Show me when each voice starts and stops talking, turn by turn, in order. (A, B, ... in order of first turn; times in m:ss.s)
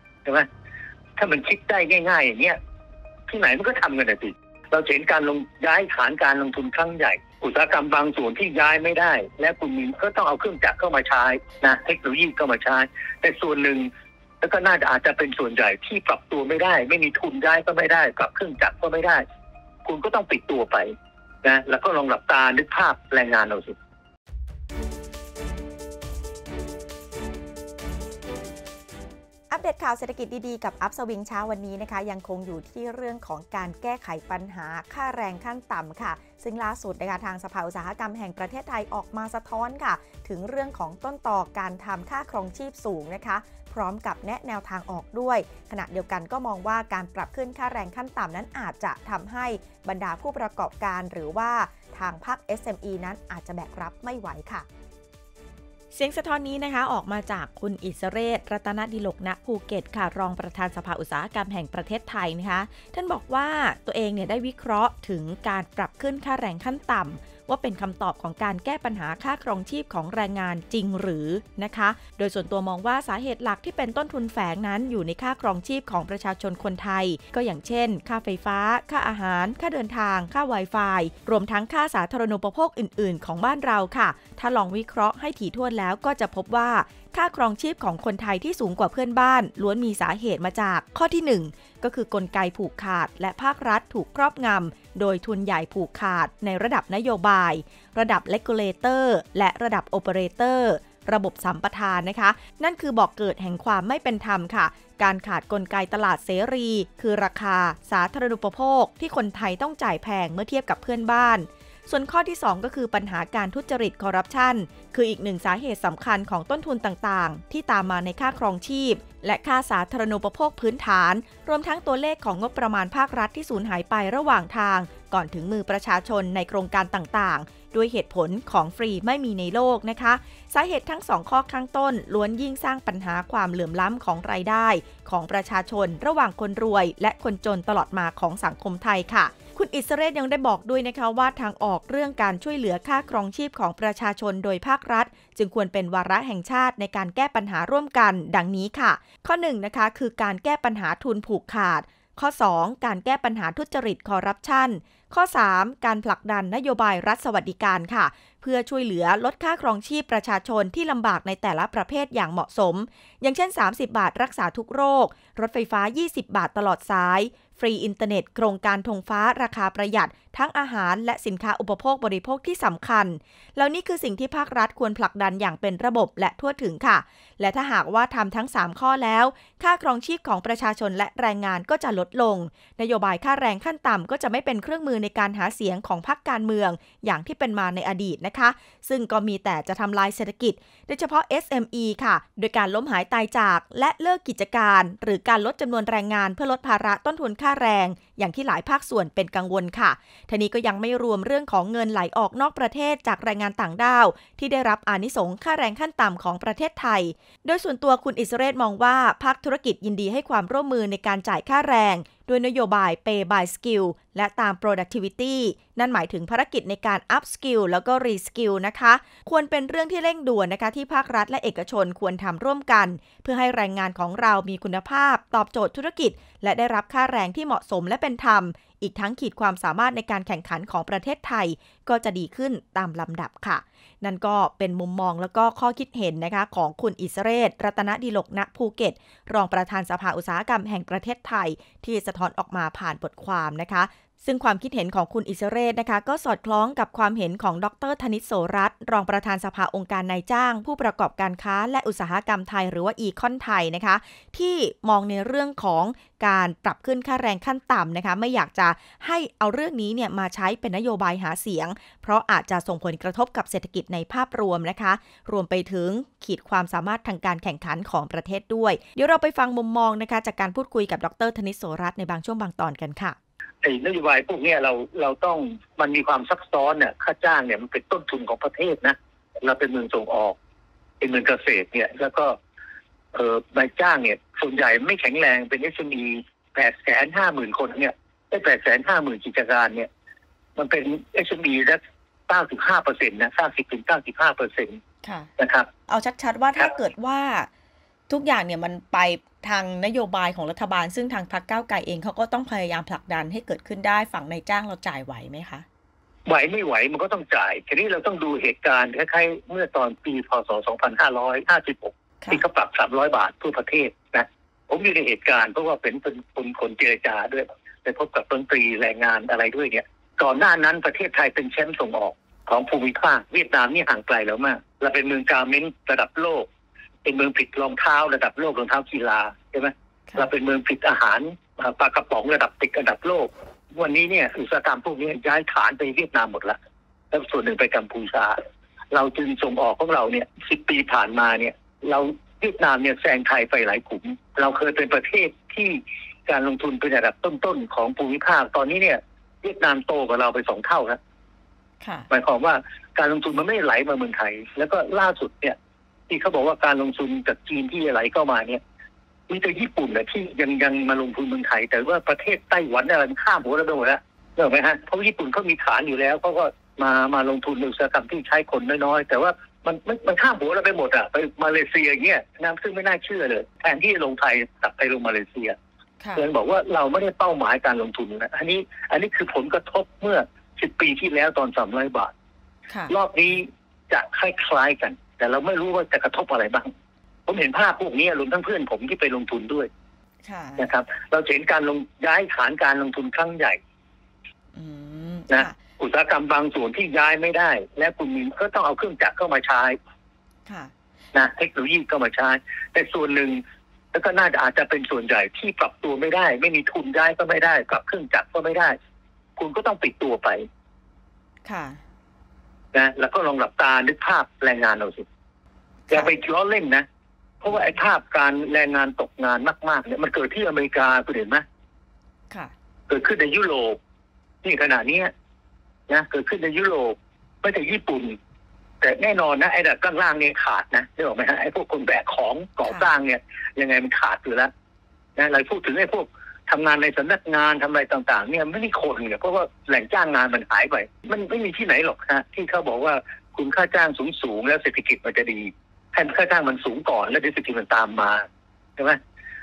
0:01.2-0:02.6 A
0:03.3-0:13.9 A
0:14.4-0:19.2 A
0:19.8-0:23.8 A
0:29.5-0:54.7 B
0:55.9-4:33.2 B
4:33.6-4:40.4 A
4:41.0-4:42.4 A
4:43.1-4:49.9 A
4:50.6-4:54.8 A
4:55.0-4:55.3 B
4:55.4-4:55.7 A
4:55.9-4:57.5 B
4:58.1-5:05.7 B
5:06.3-5:26.5 A
5:27.0-5:36.6 A
5:37.1-5:38.4 A
5:38.9-5:51.0 A
5:51.8-5:52.1 B
5:52.1-5:55.6 A
5:56.1-5:58.6 A
5:59.3-6:15.6 A
6:16.0-6:16.3 B
6:16.2-6:22.1 A
6:22.7-6:22.9 B
6:22.9-6:26.7 A
6:27.3-6:29.7 A
6:30.2-6:30.7 B
6:30.6-6:33.6 A
6:34.6-6:35.6 B
6:35.3-6:39.8 A
6:40.5-6:40.7 B
6:41.1-6:43.4 A
6:43.9-6:48.8 A
6:49.4-6:50.4 A
6:51.4-6:51.8 B
6:52.7-6:55.0 A
6:55.9-6:56.1 B
6:55.9-6:56.8 A
6:57.4-7:01.4 A
7:02.9-7:03.8 A
7:04.4-7:05.1 A
7:05.9-7:08.2 A
7:08.8-7:14.5 A
7:15.2-7:28.2 A